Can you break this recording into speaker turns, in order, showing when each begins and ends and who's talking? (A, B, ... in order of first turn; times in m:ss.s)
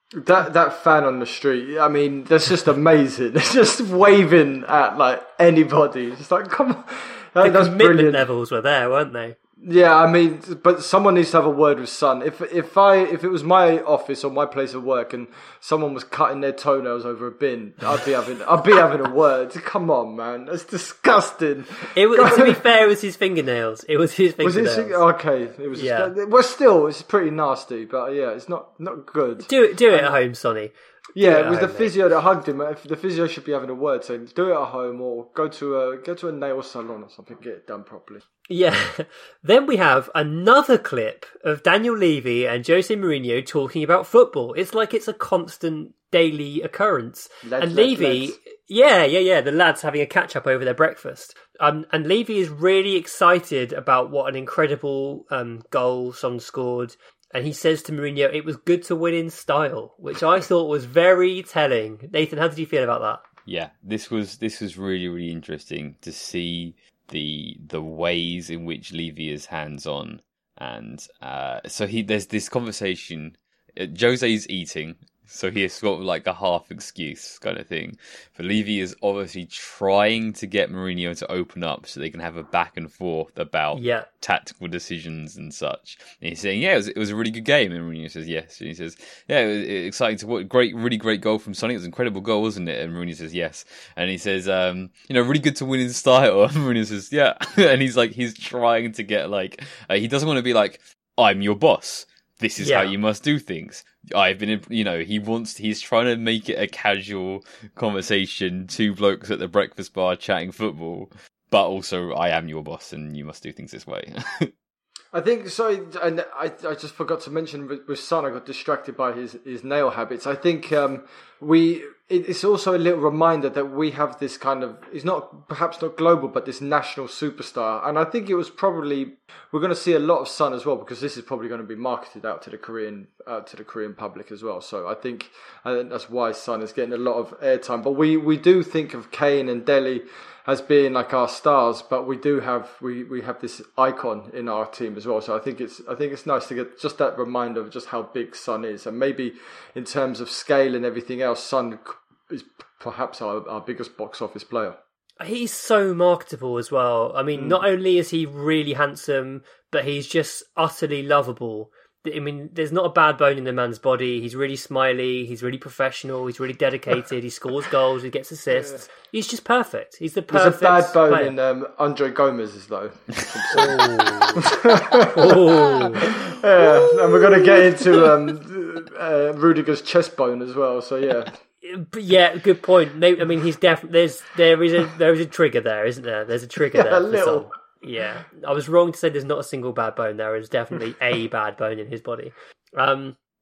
0:00.2-0:08.2 A
0:07.4-0:09.4 B
0:09.6-0:22.6 A
0:22.0-0:25.0 B
0:24.4-0:30.2 A
0:25.8-0:26.1 B
0:29.4-0:30.7 B
0:31.2-0:38.2 A
0:31.2-0:31.9 B
0:38.5-1:03.2 B
0:47.4-0:48.4 A
1:03.5-1:54.5 C
1:23.7-1:24.1 B
1:42.6-1:42.9 B
1:55.1-2:34.8 A
2:35.2-2:51.3 B
2:37.4-2:37.6 A
2:48.5-2:48.8 A
2:50.3-3:01.4 A
2:53.5-2:56.0 B
3:01.6-3:13.2 B
3:06.7-3:07.5 A